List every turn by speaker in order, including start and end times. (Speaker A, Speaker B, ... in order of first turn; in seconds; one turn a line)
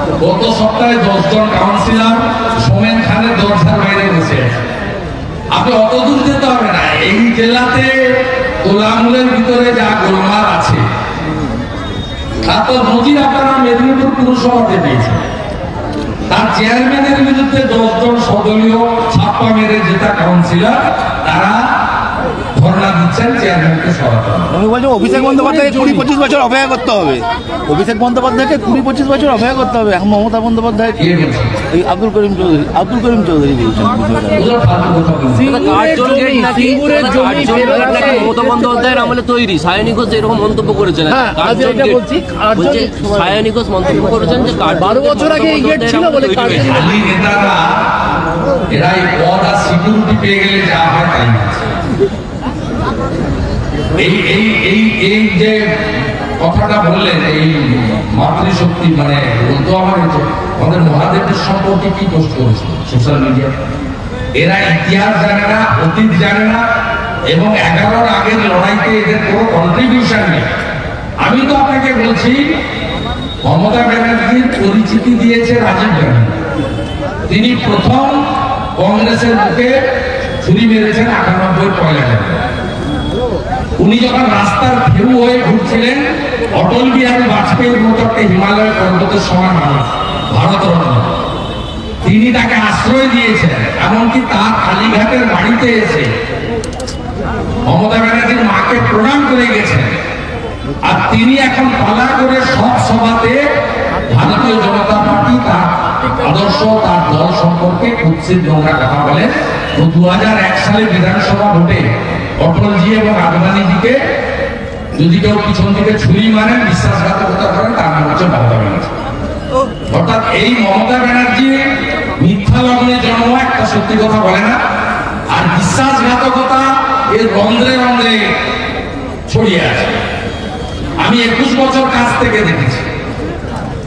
Speaker A: 0.2-4.7
Speaker A: 5.5-10.8
Speaker A: 12.4-15.2
Speaker A: 16.3-21.8
Speaker A: 22.5-24.5
Speaker B: 24.5-31.0
Speaker A: 31.0-31.6
Speaker B: 31.7-34.4
Speaker A: 34.3-35.5
Speaker C: 35.4-38.4
Speaker D: 35.5-41.9
Speaker C: 41.1-43.1
Speaker D: 42.9-44.8
Speaker C: 44.6-46.9
Speaker A: 46.5-47.9
Speaker A: 48.7-51.7
Speaker A: 54.0-55.8
Speaker A: 56.4-63.5
Speaker A: 64.3-66.6
Speaker A: 67.3-70.5
Speaker A: 71.2-72.5
Speaker A: 73.4-76.3
Speaker A: 77.3-79.8
Speaker A: 80.4-82.4
Speaker A: 83.8-91.2
Speaker A: 92.0-96.1
Speaker A: 97.6-100.0
Speaker A: 100.8-103.5
Speaker A: 104.1-114.0
Speaker A: 114.9-118.9
Speaker A: 119.9-124.6
Speaker A: 125.3-128.3
Speaker A: 129.3-130.0
Speaker A: 131.0-132.8